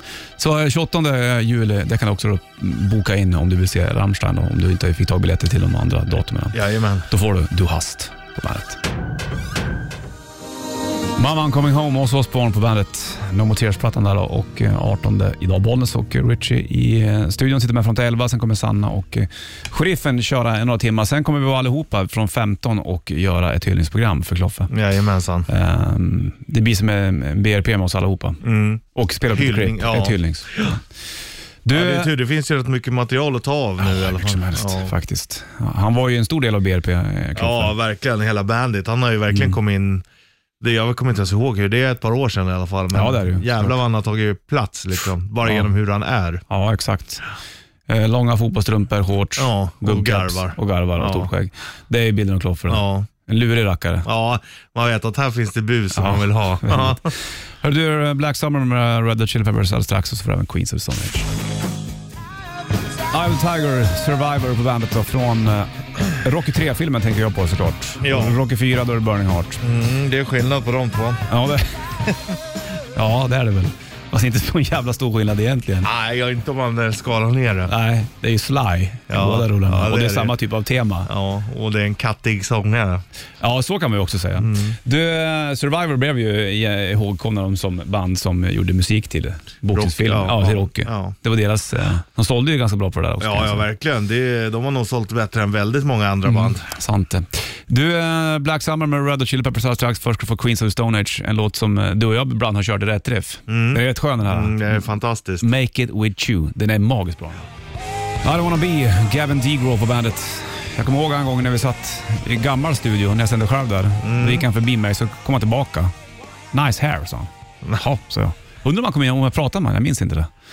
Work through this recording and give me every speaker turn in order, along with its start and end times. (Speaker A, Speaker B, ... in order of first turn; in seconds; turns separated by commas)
Speaker A: 0.4-6.6, Speaker B: 6.5-7.1, Speaker A: 7.1-8.8, Speaker A: 11.2-24.7, Speaker B: 24.7-25.5, Speaker A: 25.5-28.4, Speaker B: 28.4-30.8, Speaker A: 28.9-30.8, Speaker A: 31.6-32.1, Speaker B: 31.7-34.9, Speaker A: 33.8-37.7, Speaker B: 37.4-40.0, Speaker A: 39.3-39.5, Speaker B: 40.6-46.4, Speaker A: 42.9-43.8, Speaker A: 46.5-47.2, Speaker A: 47.9-54.0, Speaker B: 49.4-51.3, Speaker B: 52.7-53.1, Speaker B: 54.0-57.1, Speaker A: 55.9-61.3, Speaker A: 63.1-69.6, Speaker B: 68.0-68.4, Speaker B: 69.6-71.2, Speaker A: 71.3-72.0, Speaker A: 72.9-75.9, Speaker B: 75.8-77.7, Speaker A: 77.7-81.1, Speaker B: 79.1-80.3, Speaker B: 81.1-83.0, Speaker A: 83.4-93.7, Speaker B: 84.4-84.8, Speaker B: 89.7-91.2, Speaker B: 93.2-96.6, Speaker A: 96.2-104.6, Speaker B: 103.5-105.5, Speaker A: 105.4-107.5, Speaker A: 108.2-115.9, Speaker B: 114.0-114.5, Speaker A: 116.5-120.3